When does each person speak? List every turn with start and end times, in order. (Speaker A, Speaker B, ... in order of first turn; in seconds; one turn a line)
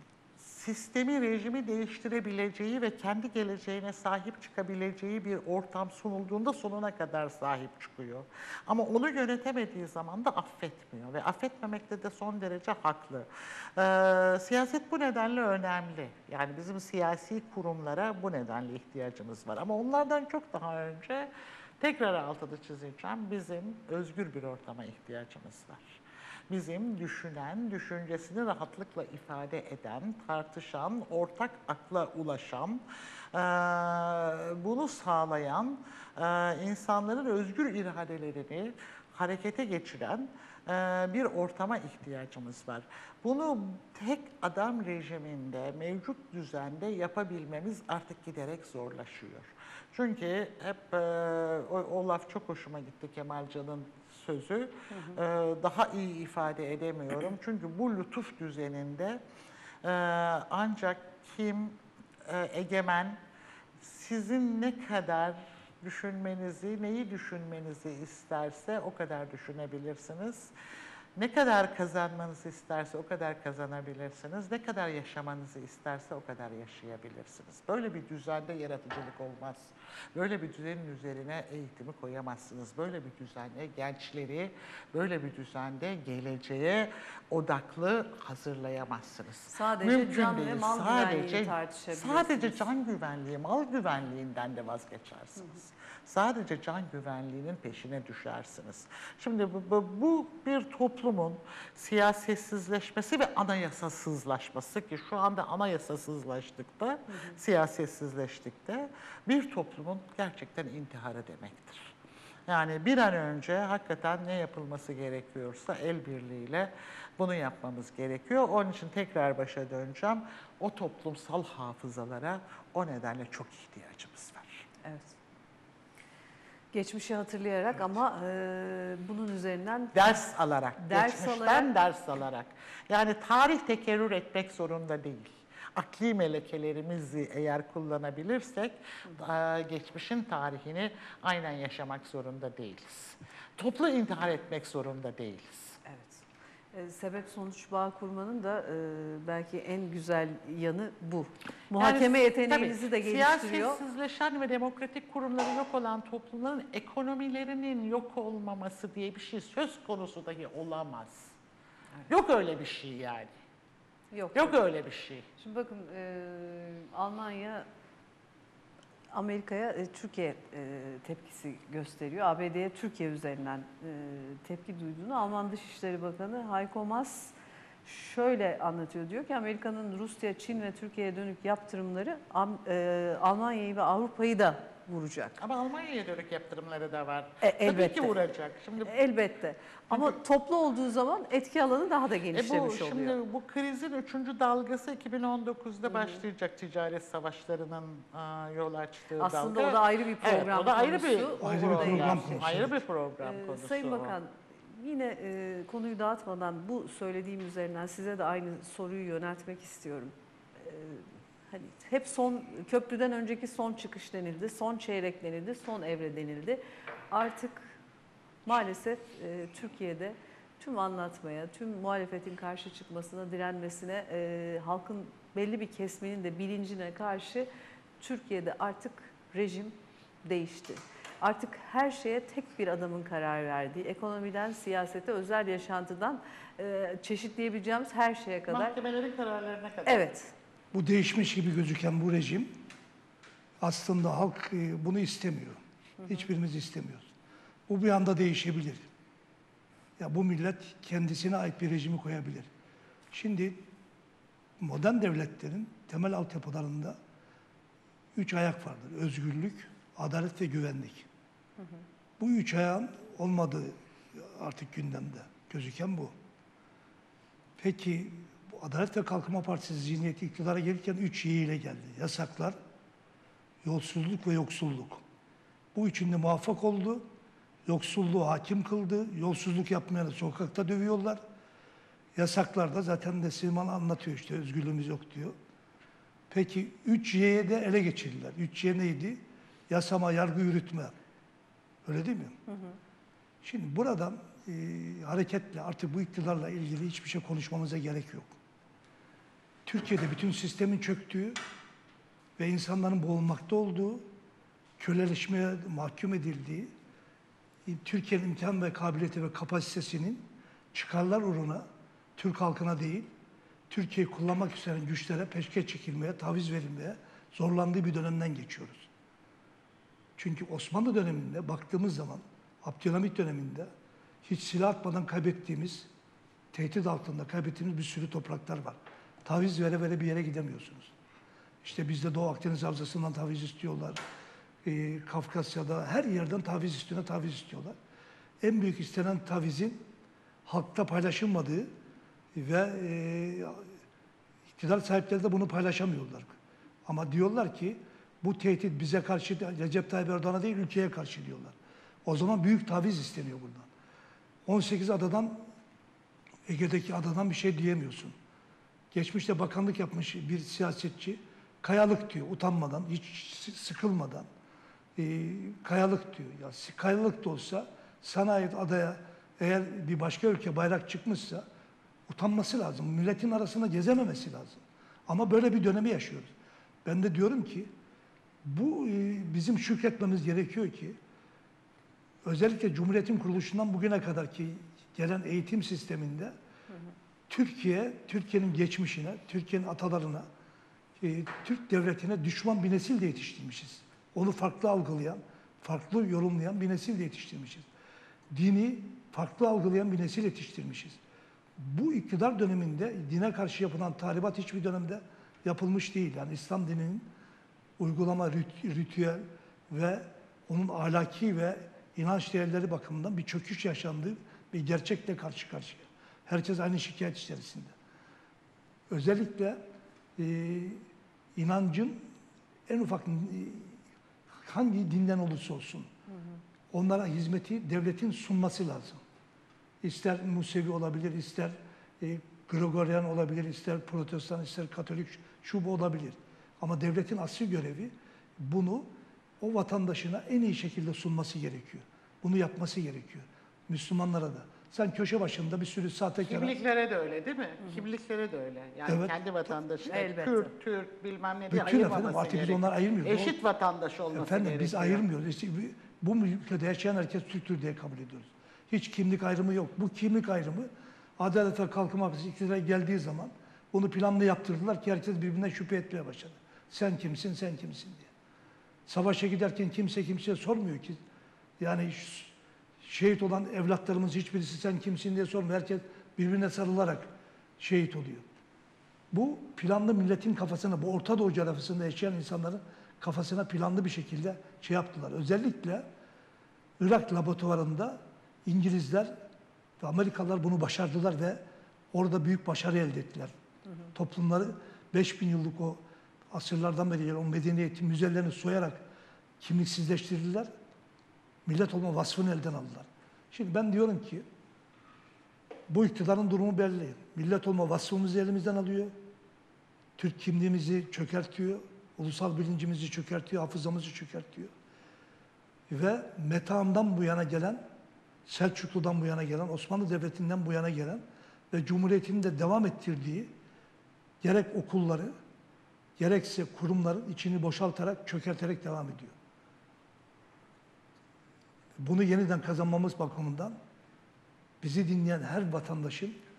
Speaker A: 0.4-21.3
Speaker A: 21.8-32.8
Speaker A: 33.3-59.2
Speaker B: 54.9-55.2
Speaker A: 59.8-63.2
Speaker A: 63.8-70.5
Speaker A: 71.2-111.9
Speaker B: 89.5-92.7
Speaker B: 107.1-107.4
Speaker A: 112.5-124.7
Speaker B: 124.8-125.2
Speaker B: 126.7-130.2
Speaker A: 129.9-145.8
Speaker B: 130.8-131.7
Speaker B: 145.8-153.8
Speaker A: 151.8-161.3
Speaker A: 162.1-163.3
Speaker B: 164.1-164.6
Speaker A: 164.3-165.3
Speaker B: 165.4-167.7
Speaker B: 169.1-185.4
Speaker A: 185.4-189.0
Speaker B: 187.4-188.1
Speaker B: 188.8-193.2
Speaker A: 189.9-190.2
Speaker A: 192.3-204.2
Speaker B: 195.8-196.2
Speaker B: 199.2-202.6
Speaker C: 201.4-202.8
Speaker B: 203.2-216.6
Speaker B: 217.1-217.7
Speaker B: 218.4-227.5
Speaker B: 228.0-238.8
Speaker A: 238.5-240.0
Speaker B: 239.8-240.3
Speaker C: 240.7-242.5
Speaker C: 243.6-247.1
Speaker B: 246.0-246.3
Speaker C: 247.7-248.8
Speaker C: 250.0-252.5
Speaker C: 253.1-253.7
Speaker C: 254.6-257.0
Speaker C: 258.1-261.1
Speaker C: 262.2-266.1
Speaker C: 267.6-272.6
Speaker C: 273.6-275.0
Speaker C: 275.7-277.1
Speaker C: 277.6-281.2
Speaker C: 282.1-285.3
Speaker C: 286.3-290.9
Speaker C: 291.8-292.4
Speaker B: 292.5-292.8
Speaker C: 293.4-298.3
Speaker C: 299.6-301.4
Speaker C: 302.4-304.1
Speaker C: 304.8-306.7
Speaker C: 307.6-311.6
Speaker C: 312.2-313.1
Speaker C: 313.7-318.9
Speaker C: 320.2-323.7
Speaker C: 324.2-325.9
Speaker C: 326.5-330.9
Speaker C: 331.6-334.0
Speaker C: 334.6-337.8
Speaker C: 338.4-339.8
Speaker C: 340.4-341.7
Speaker C: 342.3-343.7
Speaker C: 344.6-346.3
Speaker C: 346.9-353.7
Speaker C: 354.4-355.5
Speaker C: 356.5-358.1
Speaker C: 358.9-364.3
Speaker C: 364.9-371.4
Speaker C: 372.1-376.3
Speaker C: 376.8-377.7
Speaker C: 378.4-381.0
Speaker C: 382.2-386.3
Speaker C: 387.3-390.3
Speaker C: 391.0-397.7
Speaker C: 398.3-401.0
Speaker C: 401.6-407.1
Speaker C: 407.8-417.7
Speaker C: 418.9-419.6
Speaker C: 420.2-420.8
Speaker C: 421.4-422.1
Speaker C: 422.7-423.8
Speaker C: 424.4-425.9
Speaker C: 426.7-429.0
Speaker C: 429.8-446.5
Speaker A: 446.2-455.1
Speaker C: 448.9-449.1
Speaker B: 449.9-450.5
Speaker C: 451.5-453.4
Speaker C: 454.1-468.1
Speaker C: 468.9-471.0
Speaker C: 471.6-478.3
Speaker C: 479.1-485.9
Speaker C: 486.8-489.2
Speaker C: 489.8-493.3
Speaker C: 493.9-495.8
Speaker C: 496.3-498.8
Speaker C: 499.4-500.5
Speaker C: 501.4-504.2
Speaker C: 505.7-508.9
Speaker C: 510.0-514.5
Speaker C: 515.7-517.6
Speaker C: 518.2-523.3
Speaker C: 524.2-525.1
Speaker C: 526.0-529.1
Speaker C: 531.8-533.6
Speaker C: 534.6-536.2